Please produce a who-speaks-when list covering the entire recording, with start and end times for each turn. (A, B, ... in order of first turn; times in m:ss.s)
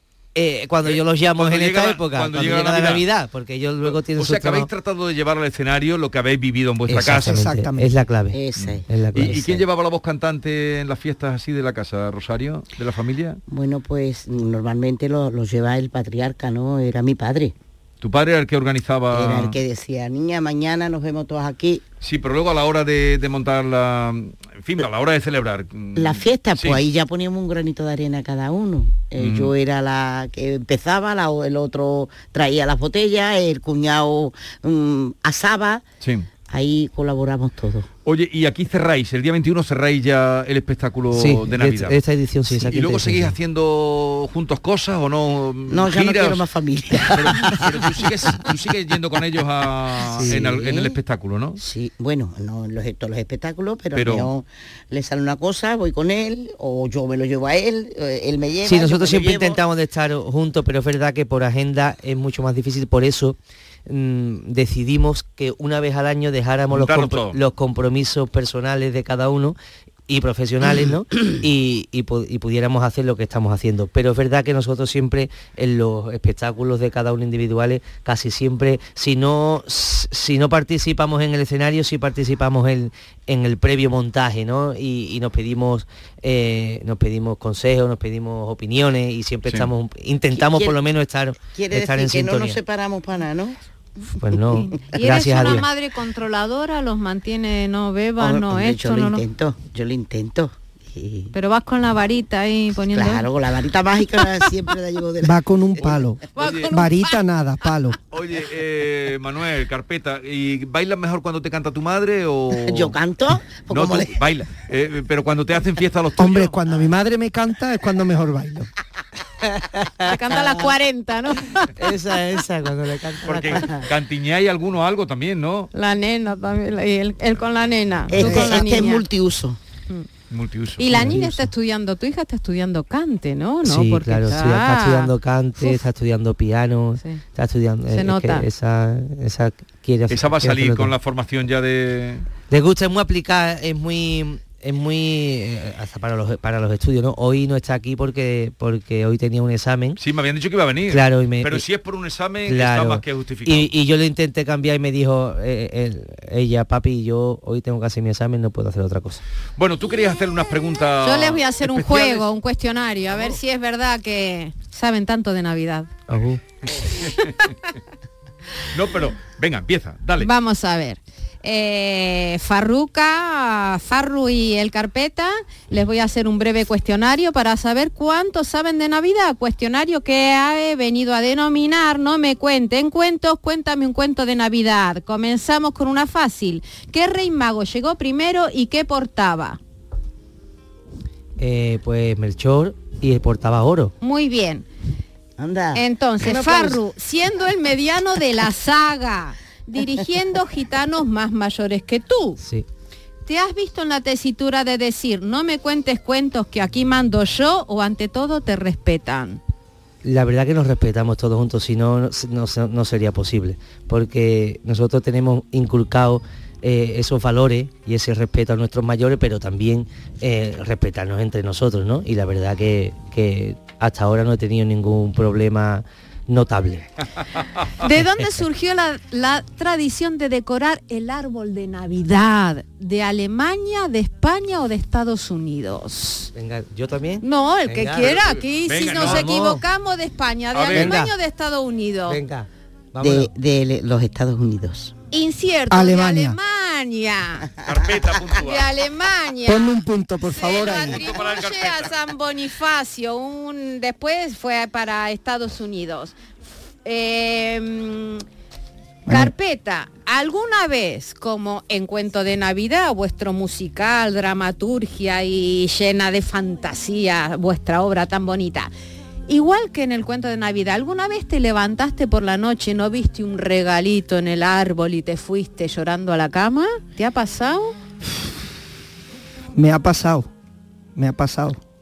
0:00.4-0:04.7 A
0:00.8-0:03.0 B
0:03.8-0:07.4 B
0:06.9-0:09.6 A
0:07.0-0:07.9 C
0:08.3-0:09.4 D
0:08.6-0:13.4 B
0:13.5-0:17.5 D
0:18.0-0:19.6 B
0:19.1-0:21.8 D
0:22.0-0:26.8 B
0:26.0-0:35.8 D
0:29.2-0:29.5 B
0:36.0-0:36.3 B
0:36.5-0:37.9 D
0:38.0-0:42.0 B
0:41.1-0:43.4 A
0:42.5-0:46.4 B
0:45.7-0:48.0 D
0:47.0-0:51.6 B
0:50.2-0:50.4 A
0:50.2-0:51.0 D
0:51.6-0:59.6 D
0:53.9-0:54.3 B
0:58.6-1:09.6 A
1:06.7-1:07.4 B
1:10.1-1:32.6 A
1:30.3-1:30.8 D
1:31.5-1:33.6 D
1:34.2-1:35.7 A
1:34.7-1:39.2 E
1:38.2-1:41.3 D
1:41.3-1:43.3 E
1:42.9-1:46.0 D
1:45.2-1:48.0 C
1:46.4-1:47.2 E
1:46.4-1:46.7 B
1:48.1-1:53.0 B
1:52.5-1:54.2 D
1:53.7-1:56.6 B
1:56.2-1:58.7 C
2:00.0-2:01.7 E
2:01.8-2:03.6 A
2:03.2-2:05.7 B
2:05.7-2:09.0 E
2:08.1-2:09.6 D
2:10.3-2:11.2 B
2:10.8-2:15.8 E
2:10.9-2:11.5 A
2:13.6-2:20.9 A
2:17.9-2:18.5 E
2:20.1-2:22.2 B
2:22.5-2:30.0 A
2:30.0-2:33.7 B
2:30.9-2:31.6 A
2:32.5-2:39.2 A
2:39.6-2:42.3 B
2:41.0-2:45.9 E
2:46.1-2:46.4 A
2:47.0-2:47.4 E
2:48.7-2:50.3 B
2:50.2-3:09.6 E
3:11.4-3:13.9 A
3:14.0-3:14.7 E
3:15.4-3:16.8 D
3:15.7-3:22.4 E
3:22.4-3:22.7 A
3:23.3-3:29.4 E
3:30.0-3:46.9 A
3:47.8-3:56.3 E
3:56.3-3:58.2 A
3:57.2-4:02.2 E
3:58.0-3:59.3 B
3:58.9-3:59.6 A
4:00.5-4:01.0 B
4:00.7-4:01.1 A
4:02.1-4:03.3 A
4:03.0-4:04.9 D
4:05.1-4:07.5 E
4:05.7-4:06.4 C
4:07.6-4:08.7 B
4:08.4-4:16.2 E
4:09.5-4:11.1 C
4:10.6-4:11.9 B
4:16.8-4:18.2 E
4:19.1-4:19.3 C
4:19.1-4:28.7 E
4:29.3-4:37.8 E
4:39.6-4:40.3 C
4:41.0-4:41.6 C